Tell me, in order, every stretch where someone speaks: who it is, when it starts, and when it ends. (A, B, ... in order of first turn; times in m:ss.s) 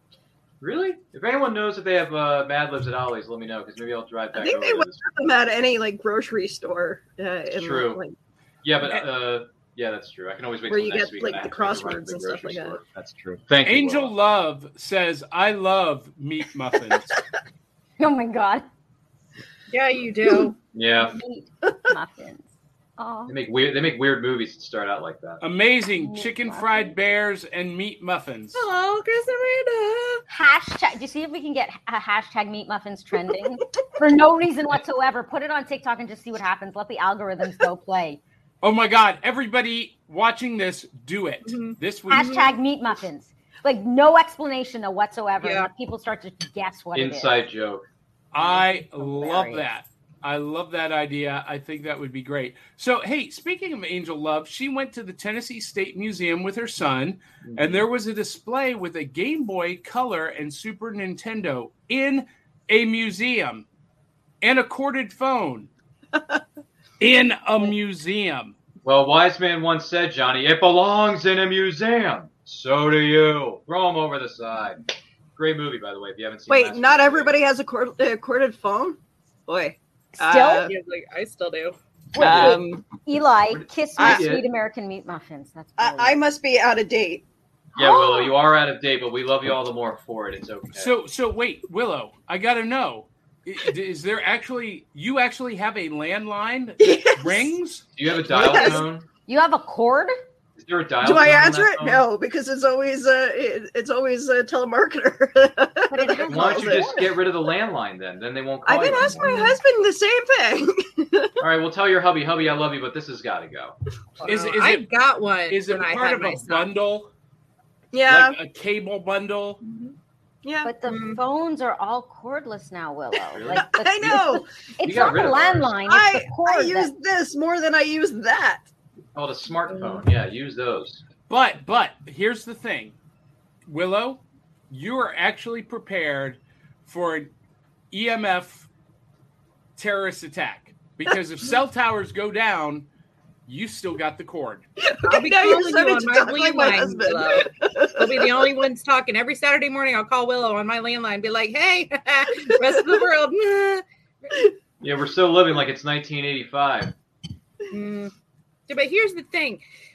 0:00.6-0:05.2 A
0:04.3-0:08.1 B
0:07.5-0:08.0 A
0:08.6-0:14.1 A
0:10.7-0:12.8 B
0:13.6-0:17.2 C
0:18.0-0:18.6 D
0:19.7-0:20.6 E
0:20.7-0:21.2 A
0:21.0-0:23.3 D
0:21.6-0:21.9 B
0:23.3-0:25.4 A
0:25.4-0:28.6 C
0:26.0-0:26.9 D
0:28.5-0:30.2 E
0:30.3-0:38.2 D
0:38.6-0:42.4 C
0:41.5-0:42.5 E
0:42.1-0:47.4 D
0:45.4-0:45.7 E
0:46.9-0:47.8 A
0:48.3-1:03.6 C
0:48.4-0:49.7 D
0:57.4-0:57.8 A
1:04.4-1:05.7 C
1:06.1-1:06.4 B
1:07.0-1:08.6 C
1:08.8-1:14.8 A
1:15.4-1:17.4 A
1:16.5-1:20.7 B
1:20.2-1:20.7 D
1:20.6-1:21.8 E
1:22.1-1:26.2 D
1:22.2-1:23.0 B
1:22.2-1:22.6 A
1:23.5-1:24.4 A
1:24.0-1:24.2 B
1:25.8-1:27.2 B
1:27.8-1:30.9 A
1:27.8-1:28.3 D
1:30.8-1:37.9 C
1:36.8-1:37.5 B
1:38.0-1:39.1 A
1:38.1-1:38.8 B
1:39.3-1:40.2 D
1:40.6-1:42.0 A
1:41.0-1:47.1 B
1:45.9-1:47.2 D
1:46.2-1:49.4 A
1:48.6-1:51.4 B
1:49.2-1:49.6 E
1:51.4-1:53.8 A
1:54.2-1:56.7 E
1:54.2-1:54.9 C
1:55.5-1:57.1 C
1:57.9-1:58.4 B
1:58.0-1:59.6 C
1:59.6-1:59.9 E
2:00.4-2:00.7 B
2:00.6-2:06.9 D
2:00.9-2:01.2 E
2:03.3-2:04.2 A
2:03.5-2:04.5 B
2:04.8-2:05.8 A
2:05.9-2:08.7 B
2:09.1-2:11.0 A
2:09.7-2:10.0 E
2:11.3-2:13.0 C
2:13.7-2:17.3 C
2:17.9-2:18.7 C
2:19.8-2:22.9 C
2:23.5-2:24.6 C
2:24.8-2:28.5 B
2:25.0-2:34.4 E
2:34.8-2:36.9 A
2:37.7-2:38.1 E
2:38.7-2:39.6 E